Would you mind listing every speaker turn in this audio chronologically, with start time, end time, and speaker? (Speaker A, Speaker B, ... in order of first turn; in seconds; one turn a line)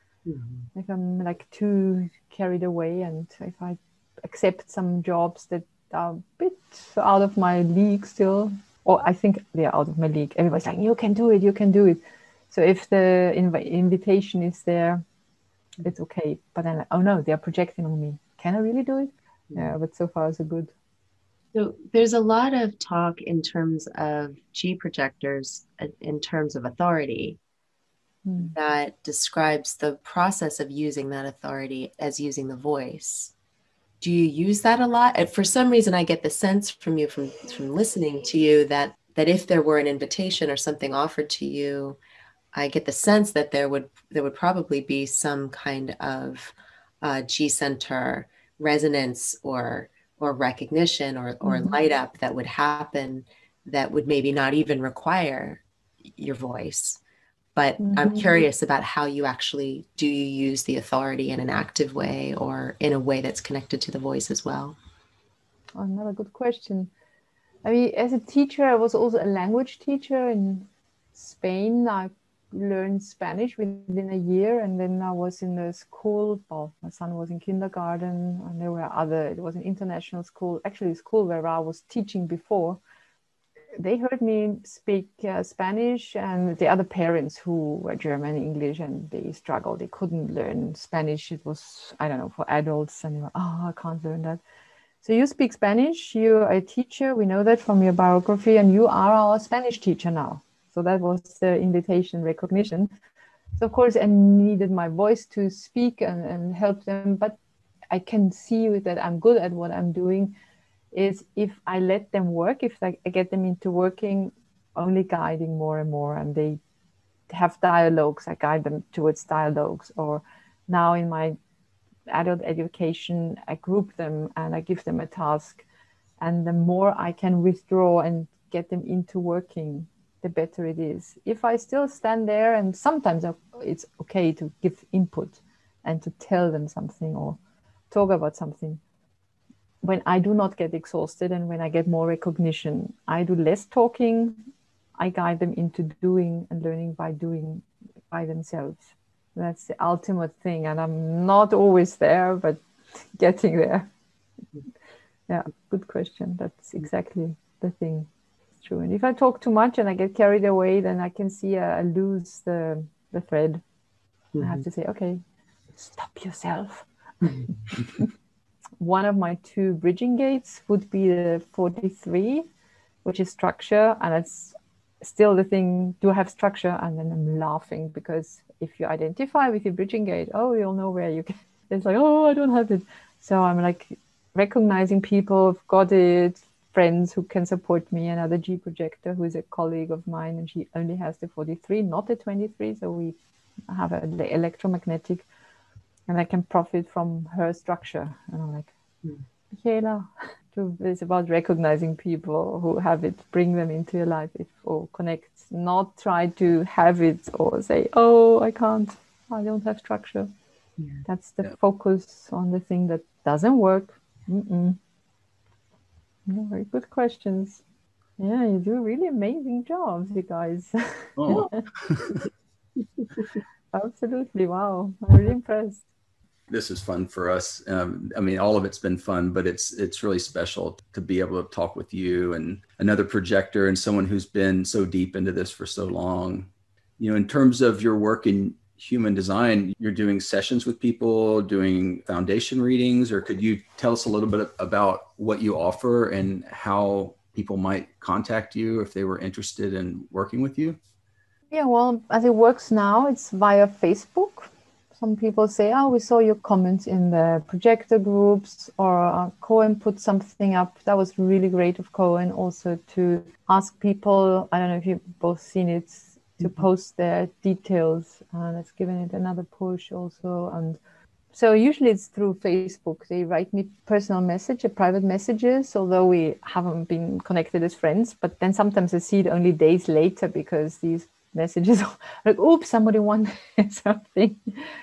Speaker A: 0.3-0.7
Speaker B: 0.8-12.0
Speaker B: 12.5-15.0
Speaker B: 15.8-20.7
Speaker A: 21.5-27.4
Speaker B: 28.3-28.6
Speaker A: 28.6-33.3
Speaker A: 34.0-42.0
Speaker A: 42.5-55.6
Speaker B: 51.4-51.8
Speaker A: 56.2-57.0
Speaker A: 57.6-64.8
Speaker B: 57.8-58.4
Speaker B: 65.8-66.9
Speaker B: 67.6-82.8
Speaker B: 83.8-94.4
Speaker B: 95.0-102.9
Speaker B: 103.6-107.4
Speaker B: 107.9-110.3
Speaker B: 110.9-116.6
Speaker B: 117.3-121.4
Speaker B: 122.1-125.6
Speaker B: 126.2-137.4
Speaker B: 137.9-138.8
Speaker B: 139.8-144.4
Speaker B: 145.0-153.9
Speaker B: 155.3-158.1
Speaker B: 158.6-163.6
Speaker A: 164.3-164.6
Speaker B: 164.4-165.2
Speaker B: 165.8-166.9
Speaker B: 167.5-168.1
Speaker B: 168.8-172.5
Speaker B: 173.0-193.2
Speaker B: 193.7-195.2
Speaker B: 196.1-198.7
Speaker B: 199.5-210.3
Speaker A: 210.8-211.0
Speaker B: 211.1-214.8
Speaker B: 216.3-217.6
Speaker B: 218.2-221.6
Speaker C: 221.2-222.1
Speaker B: 223.7-225.8
Speaker C: 226.5-236.5
Speaker C: 237.0-250.8
Speaker B: 251.5-270.8
Speaker B: 271.3-284.6